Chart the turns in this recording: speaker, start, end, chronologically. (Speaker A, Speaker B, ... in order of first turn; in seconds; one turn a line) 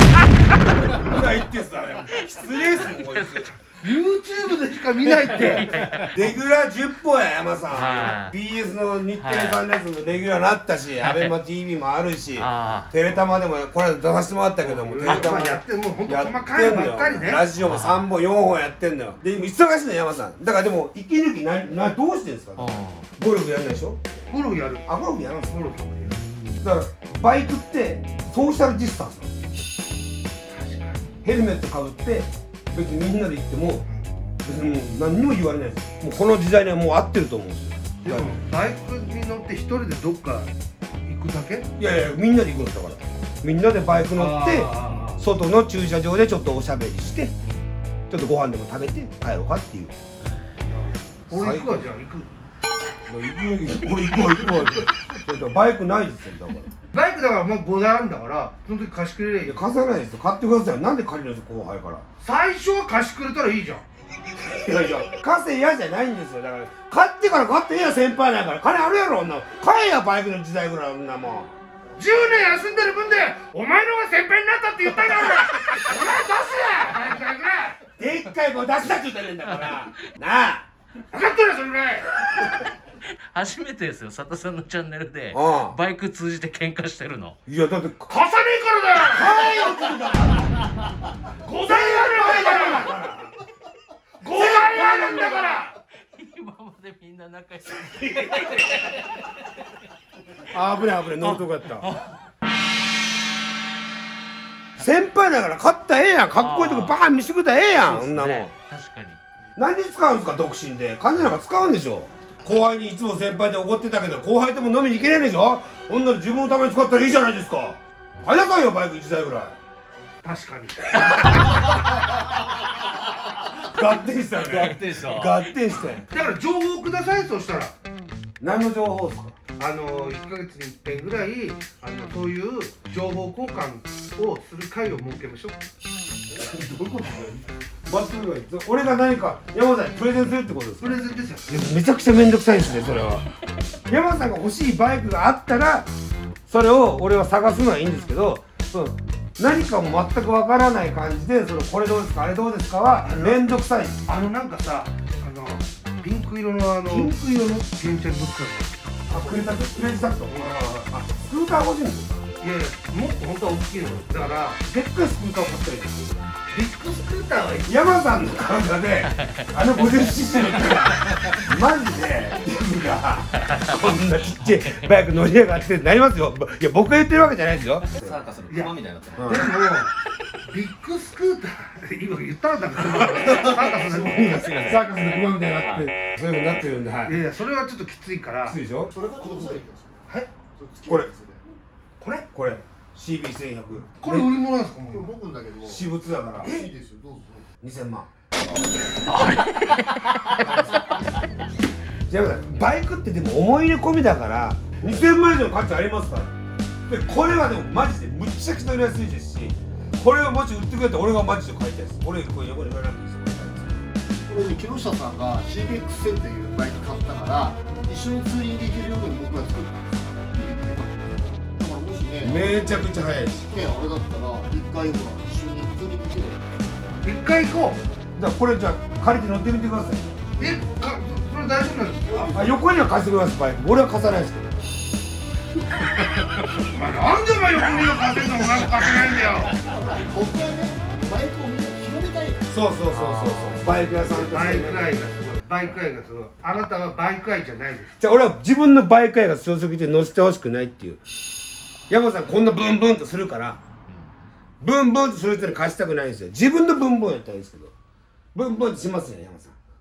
Speaker A: 0.8-3.5
Speaker B: 2.9-3.5
Speaker C: 3.8-5.7
Speaker B: 5.6-6.1
Speaker A: 6.0-24.0
Speaker B: 7.7-8.3
Speaker B: 9.2-9.6
Speaker B: 11.0-11.3
Speaker B: 12.4-12.9
Speaker C: 14.6-17.5
Speaker B: 17.6-18.0
Speaker B: 22.6-23.0
Speaker C: 24.3-24.9
Speaker A: 24.9-25.6
Speaker C: 25.4-26.2
Speaker A: 26.5-29.3
Speaker C: 30.5-31.0
Speaker A: 31.2-33.9
Speaker C: 33.9-34.3
Speaker A: 34.4-38.3
Speaker C: 38.0-40.5
Speaker C: 41.0-41.7
Speaker A: 41.8-47.4
Speaker C: 44.1-45.2
Speaker A: 48.1-49.9
Speaker C: 50.7-52.3
Speaker A: 51.3-51.7
Speaker A: 53.1-56.7
Speaker C: 56.9-59.6
Speaker A: 59.4-62.0
Speaker C: 62.2-63.8
Speaker A: 64.4-71.5
Speaker C: 72.0-77.8
Speaker A: 78.0-80.6
Speaker C: 81.1-82.1
Speaker B: 83.0-87.3
Speaker A: 85.3-85.8
Speaker A: 87.5-88.1
Speaker C: 88.1-89.5
Speaker A: 89.0-90.5
Speaker C: 91.4-92.9
Speaker A: 91.6-93.4
Speaker C: 94.2-95.7
Speaker A: 94.3-95.7
Speaker B: 96.1-99.7
Speaker A: 100.5-101.9
Speaker B: 101.2-102.2
Speaker A: 104.8-108.5
Speaker B: 106.4-107.0
Speaker B: 107.8-109.2
Speaker A: 109.5-119.5
Speaker C: 120.2-121.8
Speaker A: 123.5-126.1
Speaker D: 124.4-125.3
Speaker C: 126.1-127.7
Speaker A: 128.4-129.3
Speaker C: 129.6-135.6
Speaker A: 136.3-141.0
Speaker C: 140.8-141.6
Speaker A: 141.5-143.2
Speaker A: 143.9-145.9
Speaker A: 146.5-154.0
Speaker C: 154.0-158.9
Speaker A: 156.9-157.2
Speaker A: 159.1-162.2
Speaker C: 162.4-164.6
Speaker A: 164.6-166.2
Speaker C: 166.5-167.8
Speaker A: 167.7-178.2
Speaker D: 178.0-179.2
Speaker C: 178.5-184.4
Speaker A: 179.2-179.5
Speaker A: 183.0-187.2
Speaker C: 187.1-188.6
Speaker A: 188.4-188.9
Speaker E: 188.9-189.9
Speaker C: 189.2-190.3
Speaker E: 190.6-191.4
Speaker A: 190.8-191.1
Speaker C: 192.0-192.2
Speaker A: 192.3-194.3
Speaker C: 194.0-195.2
Speaker E: 194.9-195.8
Speaker A: 195.6-196.7
Speaker E: 196.4-197.4
Speaker A: 197.6-198.1
Speaker B: 199.1-200.6
Speaker A: 202.1-206.3
Speaker A: 206.9-213.8
Speaker E: 214.3-221.0
Speaker E: 221.6-222.3
Speaker A: 222.2-223.8
Speaker E: 223.6-226.4
Speaker C: 227.0-227.8
Speaker A: 228.2-230.2
Speaker C: 230.4-232.3
Speaker A: 232.2-234.5
Speaker C: 236.5-239.6
Speaker E: 239.7-242.4
Speaker A: 242.5-244.9
Speaker B: 242.9-243.7
Speaker C: 244.3-247.9
Speaker A: 248.0-251.0
Speaker A: 251.9-253.6
Speaker A: 254.6-257.7
Speaker A: 258.3-259.5